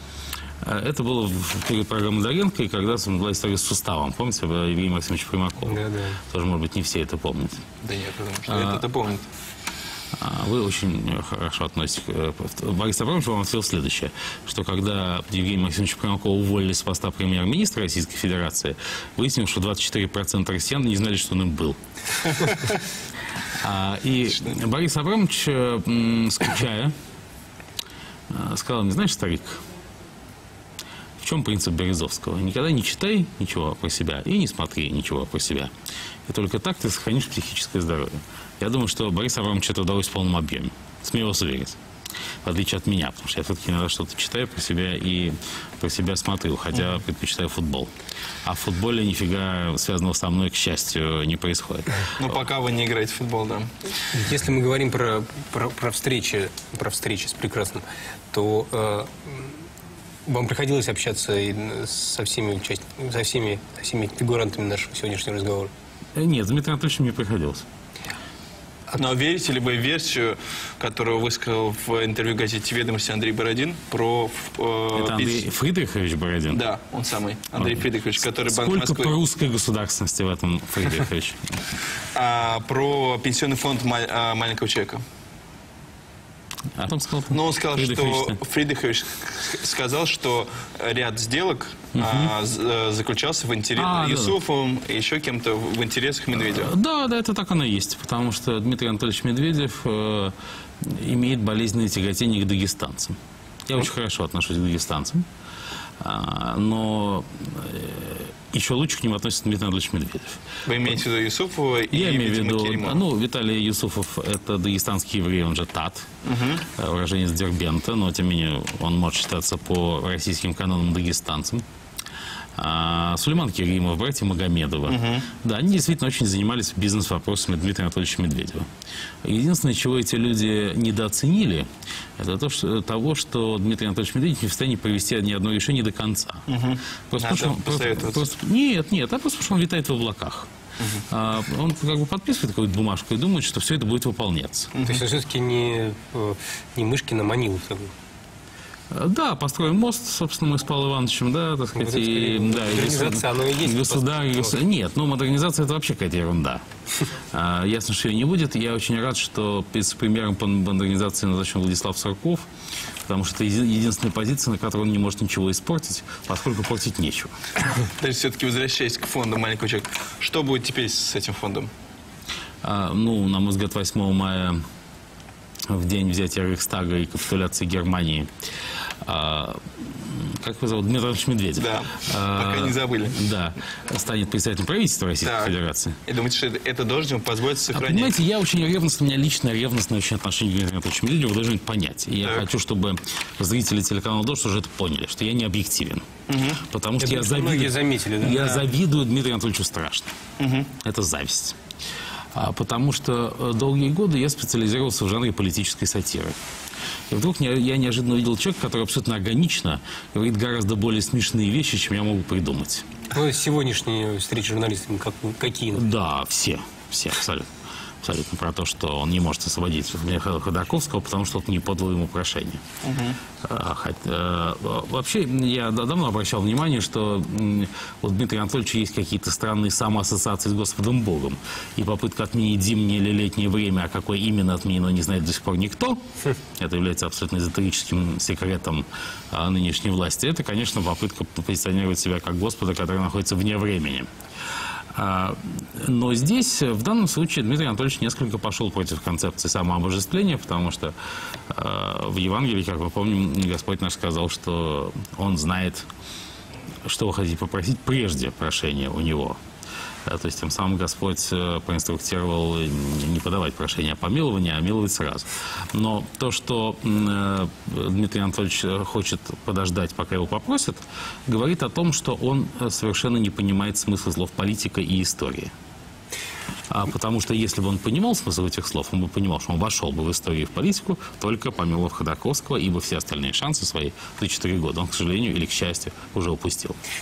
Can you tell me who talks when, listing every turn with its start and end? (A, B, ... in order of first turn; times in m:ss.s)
0:00.6-0:07.6 A
0:05.7-0:06.2 B
0:07.8-0:09.2 C
0:08.5-0:08.8 A
0:10.1-0:21.8 A
0:23.6-0:26.9 A
0:28.3-0:29.6 A
0:31.2-0:35.7 A
0:36.3-0:41.8 A
0:42.4-0:47.9 A
0:48.4-0:52.3 A
0:52.2-0:53.7 C
0:54.1-0:59.5 B
1:00.2-1:05.7 B
1:06.1-1:07.6 A
1:08.9-1:15.5 C
1:14.9-1:16.6 A
1:16.5-1:19.2 C
1:17.6-1:21.6 A
1:22.1-1:25.0 C
1:26.8-1:28.4 A
1:27.3-1:36.7 C
1:31.9-1:32.3 A
1:33.8-1:34.4 A
1:36.3-1:45.2 A
1:46.0-1:50.4 A
1:50.6-1:53.0 C
1:51.9-1:56.1 A
1:56.2-1:56.7 C
1:56.7-2:01.6 A
2:02.6-2:08.7 A
2:04.8-2:05.3 C
2:09.2-2:11.7 A
2:12.2-2:16.5 A
2:16.5-2:18.3 C
2:17.1-2:20.5 A
2:20.8-2:21.0 C
2:21.1-2:24.7 A
2:24.7-2:25.0 C
2:24.8-2:27.9 B
2:28.9-2:36.6 A
2:31.7-2:34.6 B
2:37.3-2:42.5 A
2:43.1-2:47.3 A
2:48.0-2:51.7 C
2:52.6-2:54.6 A
2:55.7-2:58.3 A
2:59.0-3:06.0 A
3:01.6-3:03.2 C
3:05.2-3:05.5 C
3:06.1-3:08.2 C
3:07.7-3:16.0 A
3:12.2-3:12.5 C
3:16.3-3:16.6 C
3:16.6-3:20.1 A
3:17.0-3:18.7 B
3:20.4-3:20.7 C
3:20.8-3:21.6 A
3:22.3-3:26.3 A
3:27.1-3:32.8 A
3:33.1-3:35.9 B
3:35.7-3:37.5 A
3:38.0-3:42.6 A
3:42.8-3:43.2 C
3:43.4-3:56.0 A
3:56.6-4:04.1 A
4:04.9-4:10.9 A
4:11.5-4:15.9 A
4:16.8-4:19.4 A
4:20.1-4:35.5 A
4:36.7-4:46.8 A